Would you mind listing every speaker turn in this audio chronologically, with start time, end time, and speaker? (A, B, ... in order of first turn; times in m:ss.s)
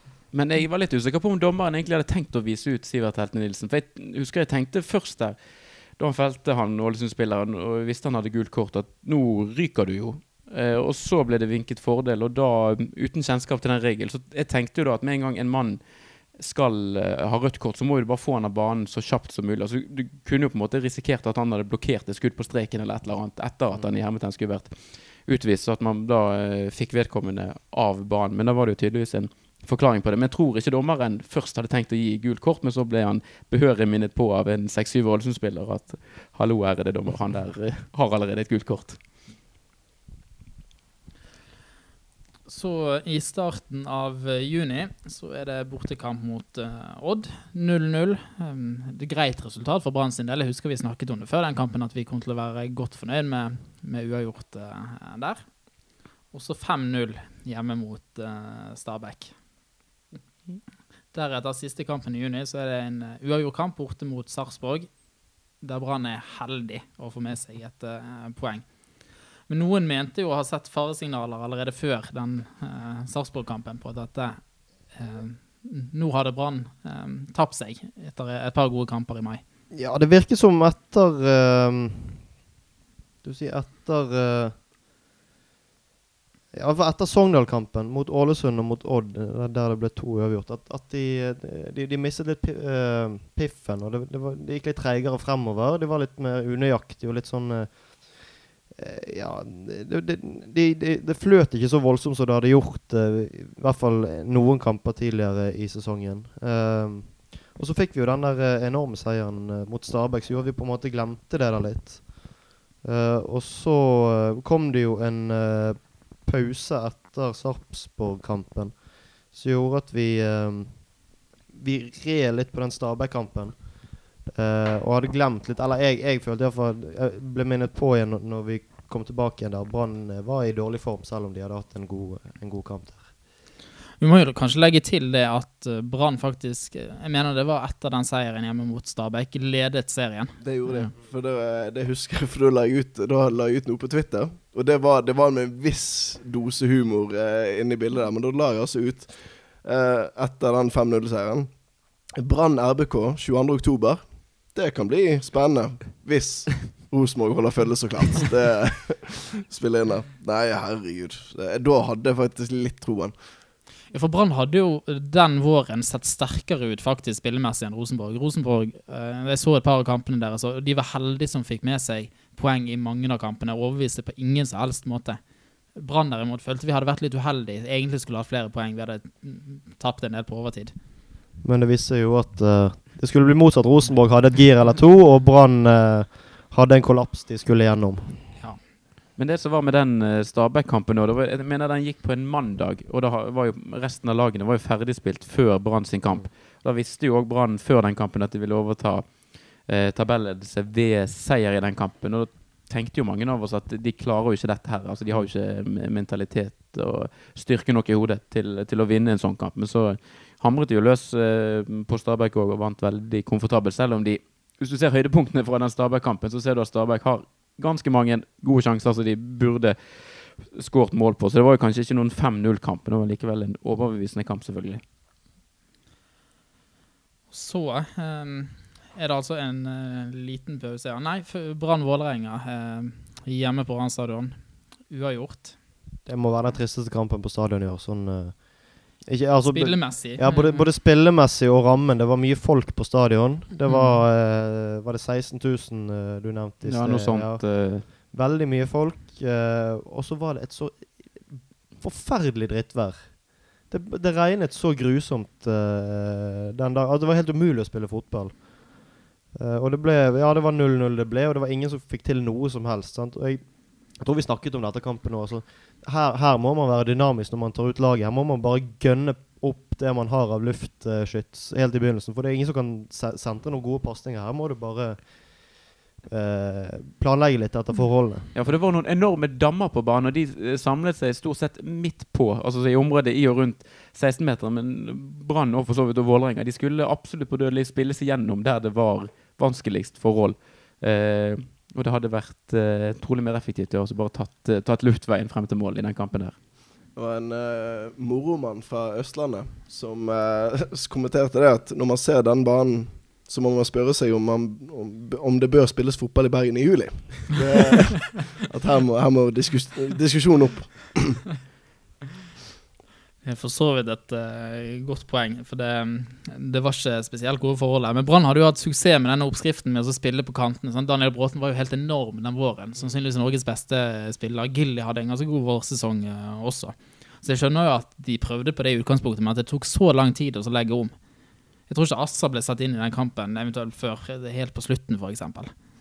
0:00.3-0:39.0 A
0:42.4-0:59.4 B
1:01.1-1:19.4 B
1:19.7-1:22.4 C
1:23.2-1:24.5 C
1:26.5-2:13.1 C
2:14.0-2:20.9 B
2:20.4-2:43.4 D
2:43.9-3:00.7 B
3:01.4-3:08.4 C
3:09.2-3:44.8 A
3:47.3-3:55.6 B
3:56.0-4:38.3 C
3:59.4-4:00.7 B
4:03.6-4:04.0 B
4:06.6-4:07.8 A
4:38.3-4:56.4 A
4:56.9-5:11.3 D
5:13.2-5:30.9 B
5:31.7-5:35.5 B